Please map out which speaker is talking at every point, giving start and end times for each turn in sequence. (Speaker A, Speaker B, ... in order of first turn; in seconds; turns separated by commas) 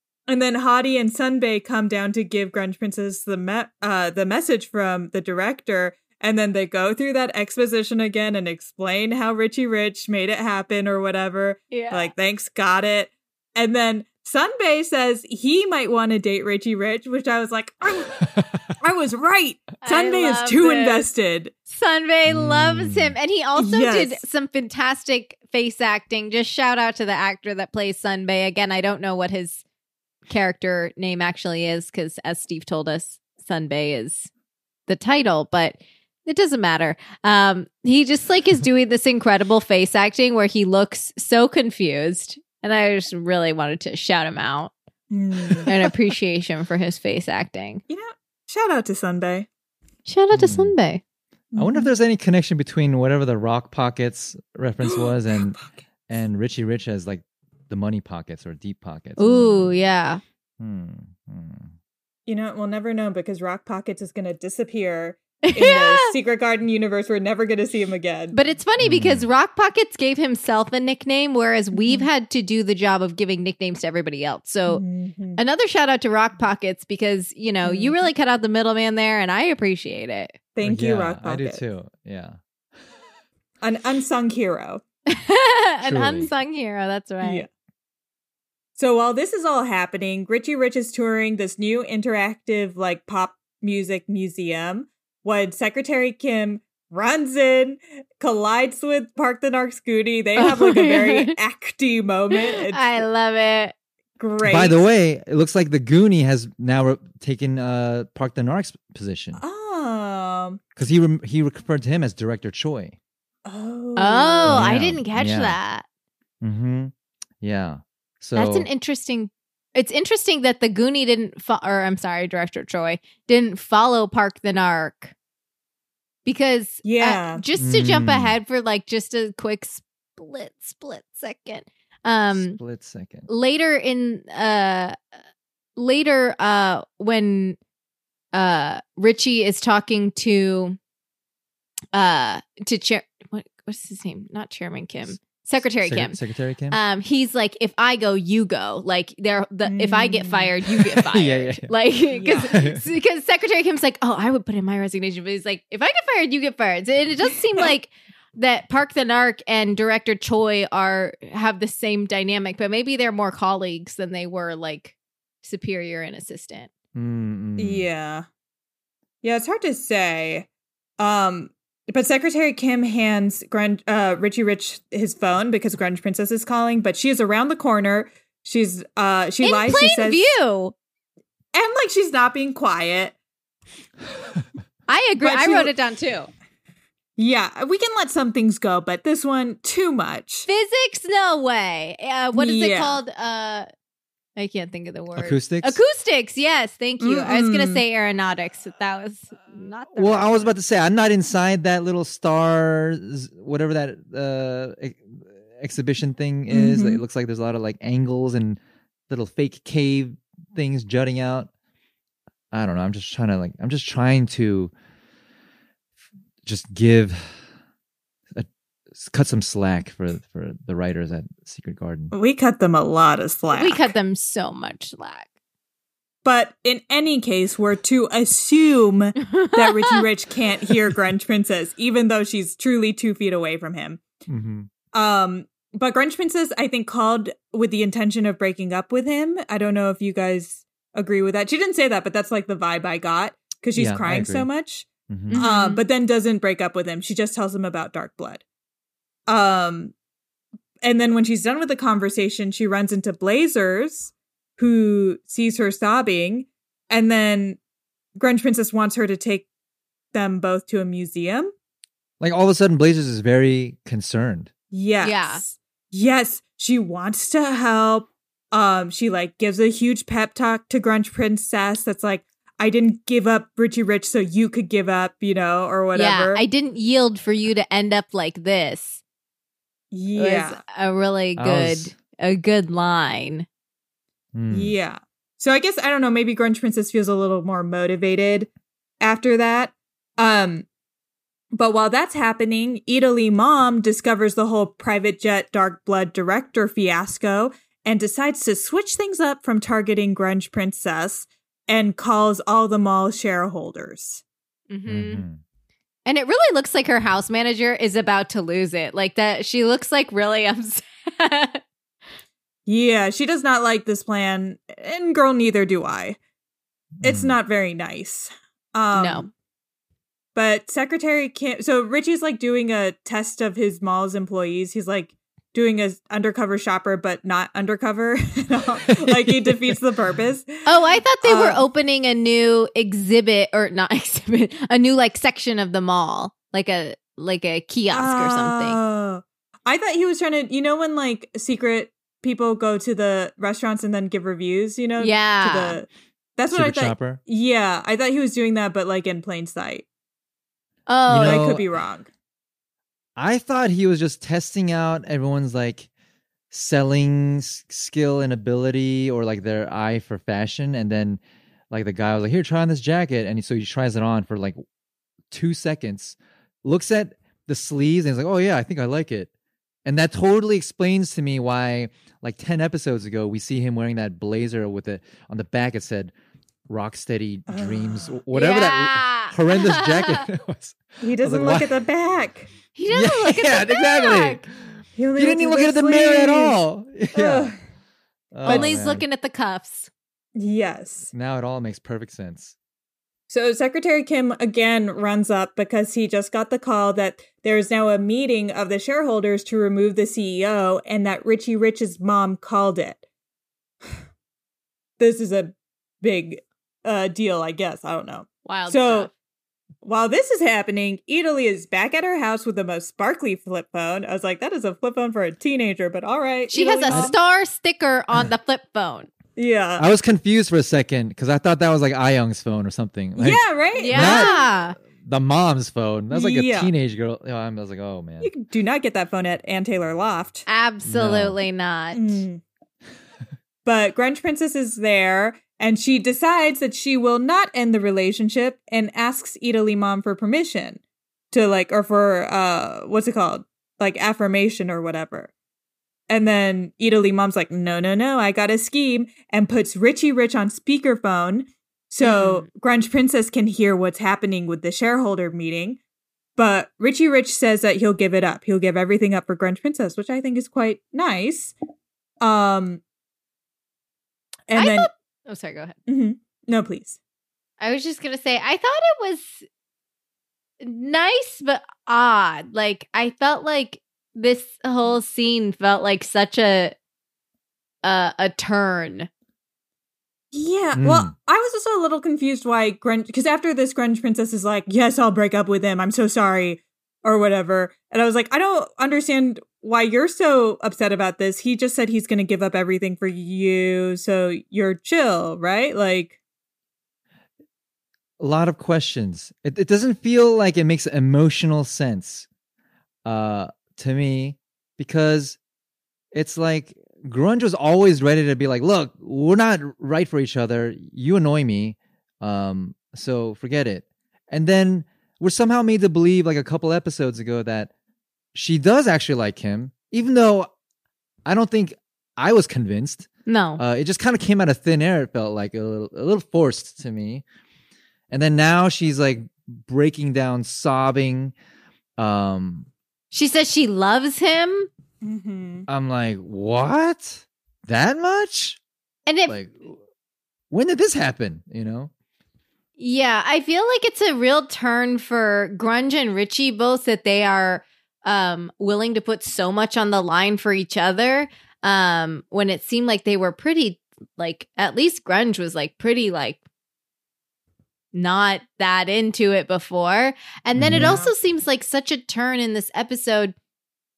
Speaker A: 0.3-21.5, Speaker B: 11.7-12.1, Speaker C: 18.2-18.6, Speaker B: 19.8-21.1, Speaker B: 21.7-29.6, Speaker C: 22.3-23.1, Speaker A: 23.6-24.2, Speaker B: 30.3-34.3, Speaker B: 34.9-44.7, Speaker A: 45.1-45.7, Speaker B: 45.7-47.8, Speaker A: 47.9-49.5, Speaker B: 50.1-51.0, Speaker C: 50.3-50.7, Speaker A: 51.5-51.9, Speaker C: 51.6-59.7, Speaker A: 54.8-55.8, Speaker B: 59.2-60.2, Speaker C: 60.6-61.7, Speaker A: 62.3-68.4, Speaker B: 65.4-66.1, Speaker B: 68.3-74.8, Speaker C: 68.8-69.3, Speaker A: 71.7-72.1, Speaker A: 74.7-75.4, Speaker B: 75.4-80.3, Speaker A: 77.6-78.0, Speaker A: 80.5-81.6, Speaker C: 80.6-82.4, Speaker A: 83.6-84.8, Speaker B: 85.1-87.5, Speaker C: 85.8-86.3, Speaker A: 87.2-87.5, Speaker A: 88.8-103.0, Speaker B: 100.4-101.3, Speaker B: 102.3-103.7, Speaker A: 104.2-104.8, Speaker C: 104.5-109.4, Speaker A: 109.4-110.6, Speaker C: 110.8-113.0, Speaker A: 113.5-114.7, Speaker B: 114.0-115.9, Speaker C: 114.5-115.5, Speaker C: 116.4-118.7, Speaker B: 118.3-125.1, Speaker B: 126.3-132.6, Speaker A: 126.8-127.4, Speaker C: 127.6-128.4, Speaker C: 132.3-133.3, Speaker B: 133.3-135.0, Speaker B: 135.8-137.6, Speaker B: 138.3-140.8, Speaker B: 141.9-146.2, Speaker C: 145.8-146.8, Speaker B: 146.7-166.7, Speaker A: 149.7-150.5, Speaker C: 150.9-151.8, Speaker A: 152.1-152.5, Speaker C: 152.5-152.8, Speaker C: 166.9-167.9, Speaker A: 167.6-168.3, Speaker A: 169.2-170.5, Speaker A: 171.0-180.3, Speaker B: 179.4-180.7, Speaker A: 181.5-183.2, Speaker B: 184.9-186.3, Speaker A: 185.2-185.7, Speaker A: 187.2-190.5, Speaker B: 190.5-193.7, Speaker A: 192.3-193.0, Speaker B: 194.4-200.5, Speaker C: 195.2-195.8, Speaker A: 197.0-197.8, Speaker C: 199.9-211.5, Speaker A: 206.5-207.0, Speaker C: 212.5-214.7, Speaker C: 216.4-217.4, Speaker C: 218.3-222.1, Speaker A: 222.1-223.9, Speaker B: 223.6-225.3, Speaker A: 226.2-234.0, Speaker B: 229.3-230.0, Speaker C: 234.3-234.7, Speaker A: 234.9-248.4, Speaker C: 243.8-244.5, Speaker C: 245.1-245.4, Speaker B: 245.3-245.8, Speaker A: 249.3-249.9, Speaker A: 250.8-257.6, Speaker A: 258.2-259.5, Speaker A: 260.1-261.5, Speaker C: 262.2-264.5, Speaker A: 264.7-276.4, Speaker B: 265.0-265.4, Speaker B: 275.9-279.0, Speaker A: 279.9-280.6, Speaker B: 280.2-283.5, Speaker C: 281.4-281.9, Speaker C: 284.4-284.7, Speaker A: 284.5-288.5, Speaker A: 289.0-290.7, Speaker A: 291.5-304.2, Speaker B: 304.7-305.2, Speaker C: 304.9-305.4, Speaker B: 306.1-311.6, Speaker A: 312.7-316.2, Speaker C: 317.0-317.4, Speaker A: 317.0-319.3, Speaker B: 318.9-319.3, Speaker A: 320.4-330.6, Speaker C: 329.0-329.8, Speaker B: 330.6-338.8, Speaker A: 331.2-331.6, Speaker A: 337.9-349.9, Speaker B: 345.0-345.8, Speaker C: 346.5-347.2, Speaker B: 350.9-351.4, Speaker C: 351.1-351.6, Speaker A: 351.2-352.1, Speaker C: 353.2-355.9, Speaker C: 356.5-364.6, Speaker C: 365.3-369.3, Speaker C: 369.9-376.1, Speaker C: 376.7-381.7, Speaker A: 377.5-378.2, Speaker B: 378.3-380.2, Speaker A: 381.0-382.5, Speaker B: 382.8-384.5, Speaker C: 382.9-387.6, Speaker A: 385.0-386.6, Speaker A: 387.1-387.6, Speaker C: 388.3-389.0, Speaker A: 388.4-388.7, Speaker B: 388.4-389.9, Speaker A: 390.4-391.1, Speaker C: 391.1-392.6, Speaker A: 393.3-403.0, Speaker A: 405.0-409.1, Speaker B: 408.4-409.1, Speaker A: 409.8-417.2, Speaker B: 416.5-419.1, Speaker A: 419.4-419.9, Speaker C: 419.8-428.3, Speaker A: 423.2-424.5, Speaker B: 423.8-424.8, Speaker A: 426.1-426.7, Speaker A: 428.2-430.4, Speaker B: 430.5-432.2, Speaker C: 430.9-431.4, Speaker A: 431.9-432.4, Speaker A: 433.6-445.3, Speaker A: 446.1-455.8, Speaker B: 452.0-452.5, Speaker A: 456.4-461.5, Speaker A: 462.2-462.8, Speaker A: 464.5-464.9, Speaker B: 464.5-465.8, Speaker A: 465.9-467.0, Speaker B: 467.6-469.5, Speaker B: 470.6-476.8, Speaker B: 477.8-479.1, Speaker A: 480.3-496.2, Speaker C: 480.8-481.1, Speaker C: 498.2-502.3, Speaker C: 503.1-505.4, Speaker C: 506.1-517.7, Speaker C: 518.4-520.5, Speaker C: 521.2-527.2, Speaker B: 523.3-523.6, Speaker C: 528.1-531.3, Speaker C: 532.0-532.7, Speaker B: 533.1-534.7, Speaker A: 535.0-535.7, Speaker C: 535.7-538.6, Speaker B: 539.1-539.4, Speaker C: 539.3-539.8, Speaker C: 540.5-541.9, Speaker B: 542.8-556.4, Speaker B: 557.9-563.4, Speaker C: 560.6-561.0, Speaker A: 560.8-561.1